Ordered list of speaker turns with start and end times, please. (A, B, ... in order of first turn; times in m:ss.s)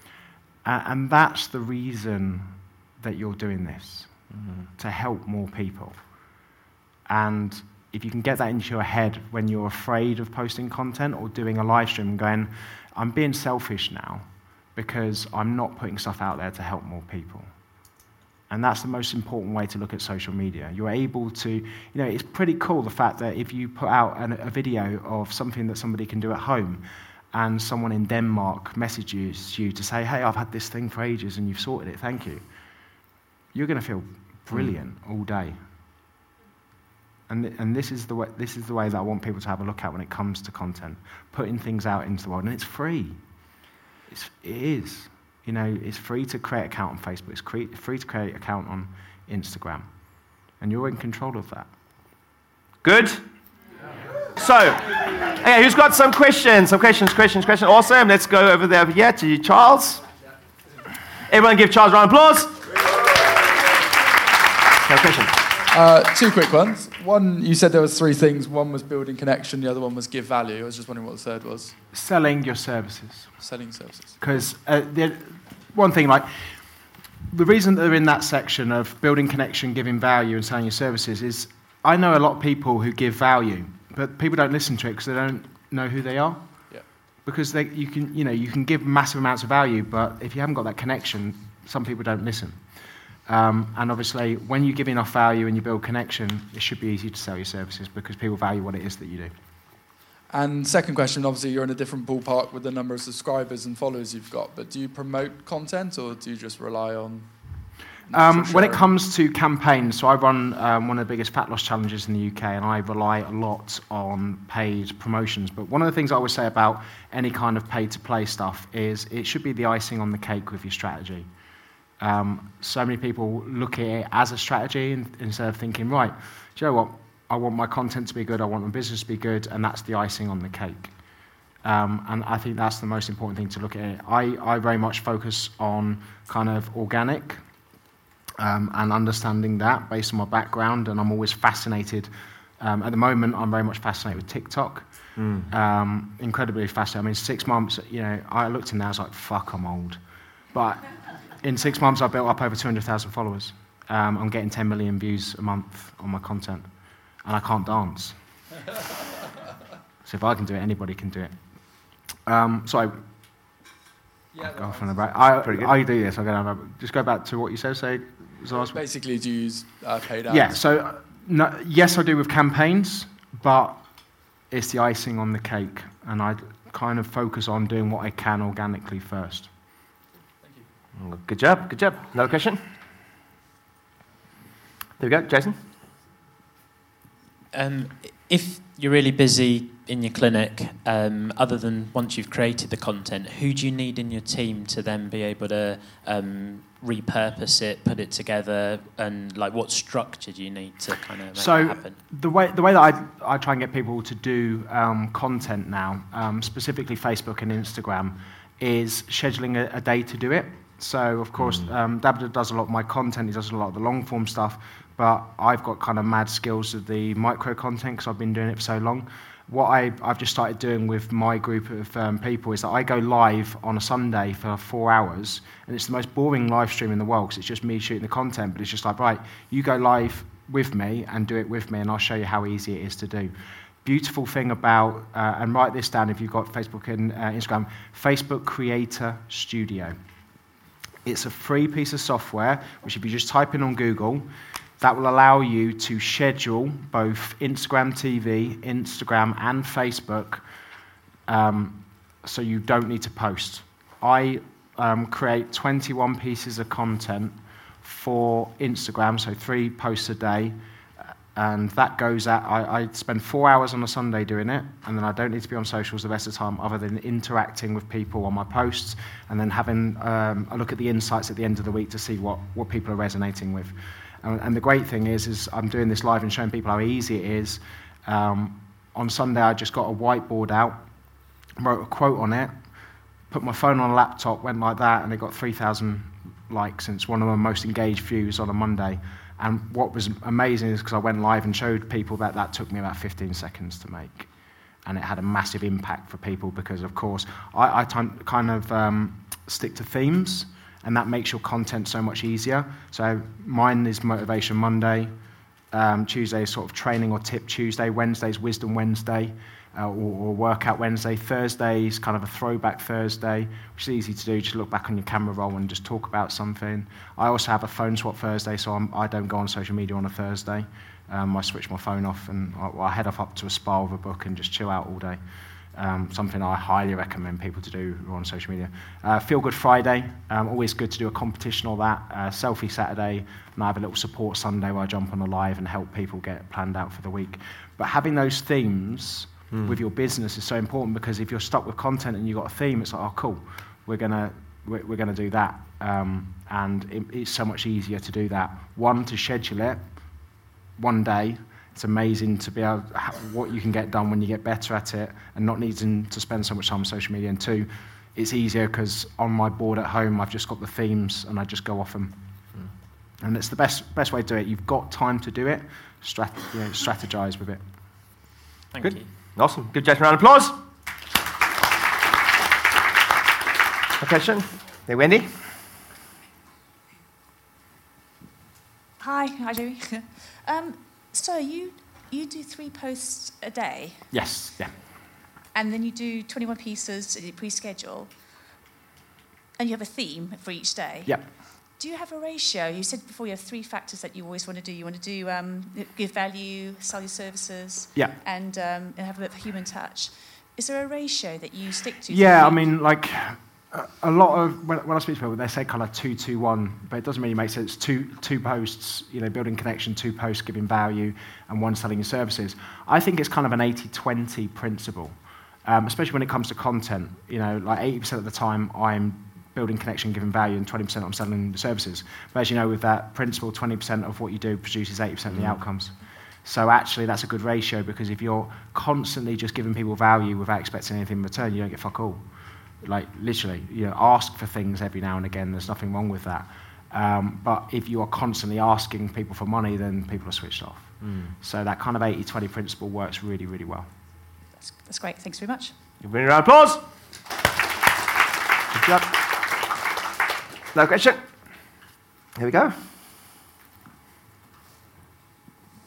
0:00.6-0:04.1 A
0:04.8-0:06.0 A
0:07.1-0:17.5 A
0:18.5-0:32.4 A
0:33.5-0:35.6 A
0:37.3-0:43.2 A
0:44.1-0:49.9 A
0:50.6-0:51.7 A
0:52.8-0:53.2 B
0:54.4-1:00.0 B
1:01.3-1:02.6 B
1:04.8-1:05.4 B
1:05.7-1:11.8 C
1:11.9-1:13.4 A
1:13.4-1:14.2 C
1:14.2-1:16.6 A
1:17.3-1:26.5 A
1:27.2-1:32.6 A
1:33.3-1:39.3 A
1:40.3-1:48.9 C
1:48.1-2:01.3 A
2:02.0-2:10.9 A
2:11.6-2:17.4 A
2:18.4-2:30.0 A
2:25.2-2:25.5 B
2:30.5-2:30.9 A
2:31.4-2:36.7 A
2:37.2-2:38.2 A
2:40.0-2:41.4 A
2:42.3-2:43.0 A
2:44.4-2:48.8 A
2:45.4-2:45.7 B
2:48.6-2:50.6 C
2:50.3-2:53.8 A
2:54.5-2:59.5 A
3:01.0-3:02.6 B
3:05.0-3:05.6 B
3:07.5-3:22.0 D
3:21.4-3:53.3 A
3:53.8-4:00.0 A
4:01.0-4:04.3 A
4:04.8-4:10.4 A
4:11.3-4:20.6 A
4:21.4-4:40.8 A
4:41.6-4:42.5 A
4:43.3-4:54.3 A
4:54.8-5:05.1 A
5:05.7-5:25.2 A
5:25.8-5:49.8 A
5:50.8-6:02.2 A
6:03.2-6:07.6 A
6:08.7-6:09.1 D
6:08.8-6:10.6 B
6:14.0-6:15.3 B
6:19.0-6:24.1 E
6:24.1-6:24.8 A
6:25.5-6:28.1 E
6:29.6-6:42.7 E
6:42.1-6:55.2 A
6:55.7-7:12.2 A
7:12.8-7:23.9 A
7:24.6-7:25.7 E
7:26.0-7:26.8 B
7:28.7-7:29.2 B
7:30.7-7:31.2 B
7:32.4-7:32.8 B